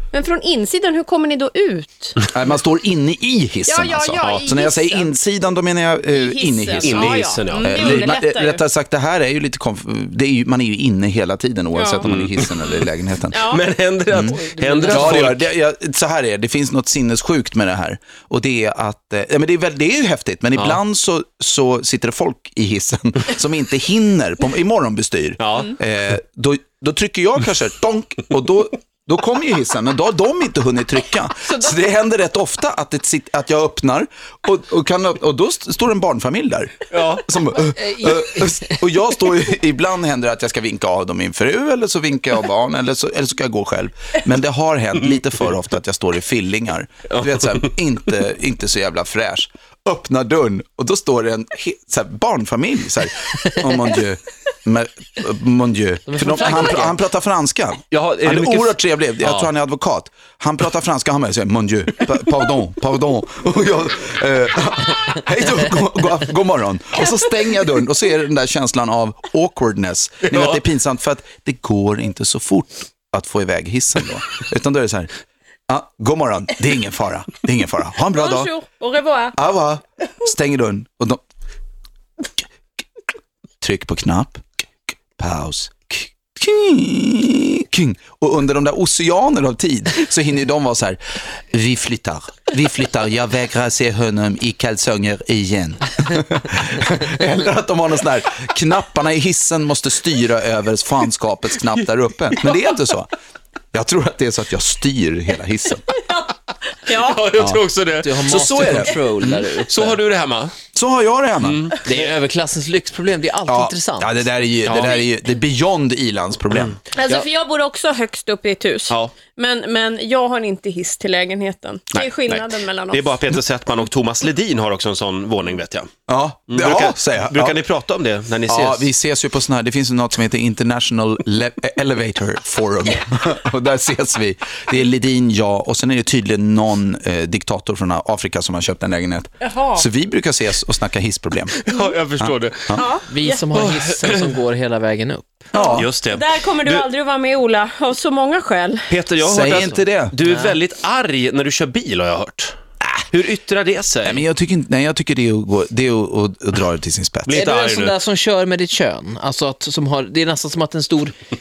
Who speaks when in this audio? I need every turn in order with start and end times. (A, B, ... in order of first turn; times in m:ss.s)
0:00.1-0:02.2 A
0:02.3-1:15.1 B
0:03.6-0:05.1 A
0:06.1-0:08.6 A
0:06.8-0:08.2 C
0:11.7-0:12.1 A
0:12.0-0:12.5 C
0:13.3-0:13.6 A
0:13.5-0:15.5 C
0:14.3-0:15.2 D
0:25.4-0:25.7 C
0:36.9-0:37.2 C
0:37.6-0:38.8 D
0:47.1-0:47.7 C
0:56.1-0:57.0 D
0:57.9-0:59.5 C
1:15.7-1:18.5 B
1:18.1-1:19.4 A
1:19.3-1:21.2 B
1:23.6-1:24.4 B
1:25.2-1:43.1 B
1:43.7-1:46.0 B
1:46.9-1:48.4 C
1:46.9-1:47.3 A
1:47.4-1:47.6 B
1:48.0-1:50.0 D
1:48.2-1:49.5 B
1:49.7-1:50.5 C
1:50.8-1:51.7 B
1:51.4-1:52.0 C
1:51.8-1:54.2 D
1:53.5-1:56.8 B
1:54.6-1:55.0 C
1:56.5-1:57.2 C
1:56.9-2:03.2 A
2:01.9-2:05.9 C
2:06.1-2:07.6 B
2:06.5-2:08.9 C
2:08.5-2:21.6 B
2:19.4-2:19.9 A
2:21.6-2:22.7 C
2:22.2-2:22.9 B
2:22.7-2:23.4 A
2:23.1-2:25.5 D
2:23.5-2:24.2 C
2:25.5-2:25.9 B
2:25.6-2:28.9 A
2:25.8-2:26.9 C
2:28.9-2:32.6 C
2:29.2-2:30.2 B
2:30.2-2:30.6 D
2:33.1-2:34.2 C
2:34.0-2:37.4 B
2:37.3-2:38.0 C
2:37.3-2:41.1 D